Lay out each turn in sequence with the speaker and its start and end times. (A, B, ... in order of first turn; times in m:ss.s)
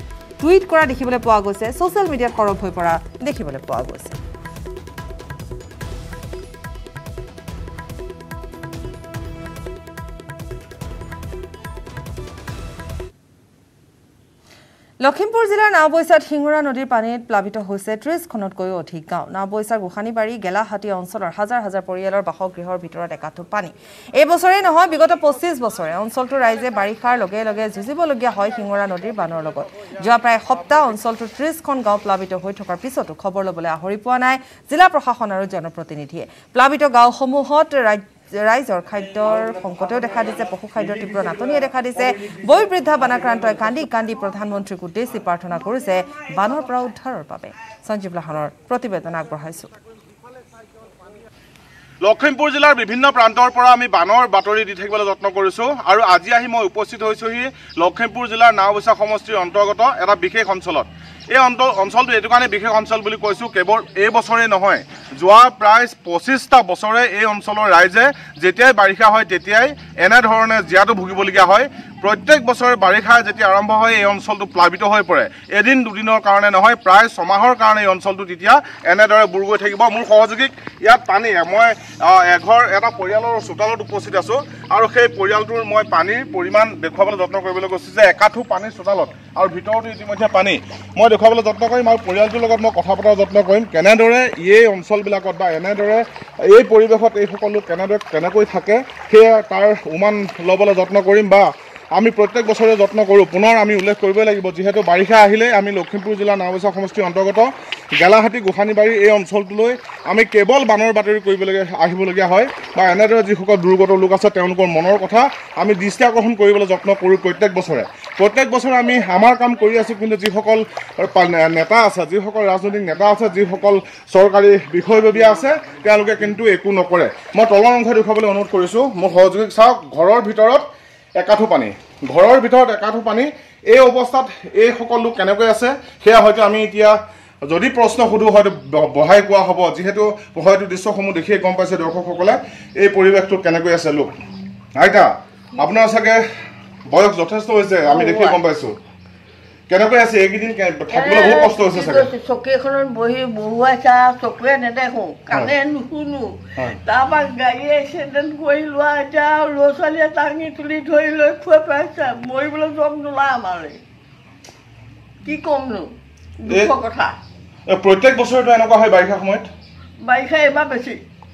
0:00.4-0:04.2 A
0:15.0-0:49.7 A
0:52.0-2:10.7 B
2:11.2-2:24.1 B
2:24.7-2:26.2 B
2:26.9-2:28.8 B
2:27.8-2:28.4 C
2:29.7-2:32.1 B
2:30.9-2:43.8 C
2:45.2-2:47.2 C
2:47.7-2:49.5 B
2:50.0-2:51.0 C